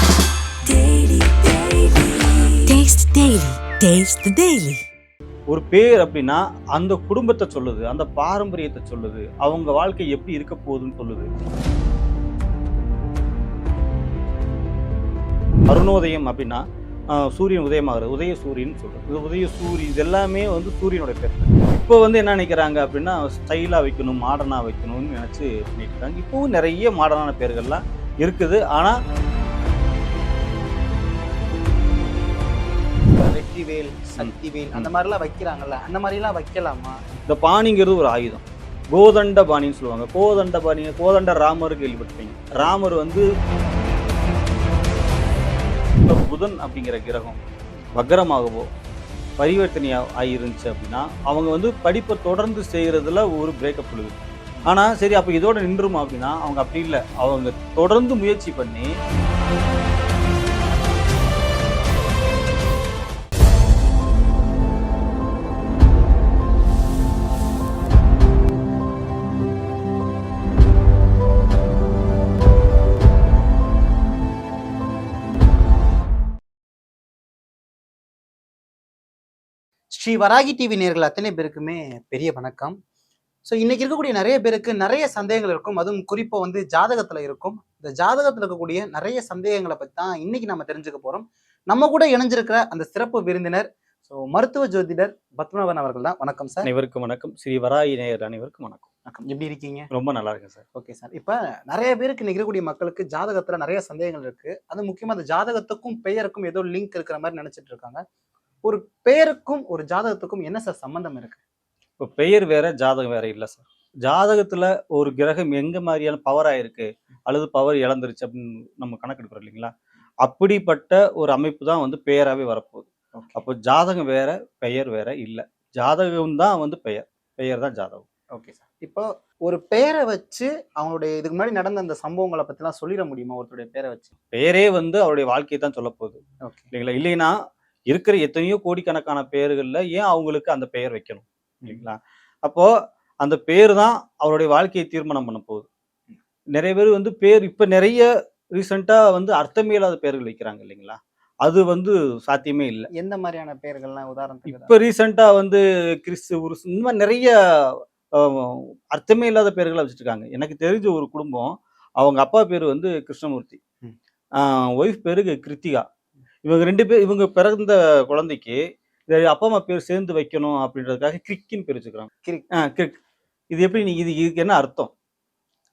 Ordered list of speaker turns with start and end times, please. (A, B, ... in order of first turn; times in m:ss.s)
0:00.6-0:04.8 A
0:05.5-0:11.3 B
0:15.7-0:29.0 B
0:33.1-0:37.0 C
0:34.2-0:34.9 B
0:37.3-0:43.3 B
0:46.0-0:47.4 B
0:47.9-0:48.7 B
0:49.4-0:58.9 B
1:19.9-1:22.8 C
1:23.4-1:36.7 C
1:36.6-1:38.8 B
1:39.1-1:39.9 C
1:39.9-1:40.6 B
1:40.7-1:48.0 C
1:48.6-1:51.4 C
1:52.0-1:59.7 B
2:00.2-2:08.0 B
2:03.1-2:03.4 C
2:08.3-2:14.1 C
2:14.3-2:16.2 B
2:16.7-2:17.4 B
2:17.9-2:22.7 B
2:23.2-2:25.7 B
2:26.6-2:32.9 B
2:32.9-2:34.7 C
2:34.4-2:43.6 B
2:44.4-2:45.8 B
2:46.4-2:52.9 B
2:52.2-2:52.5 C
2:53.5-2:54.9 B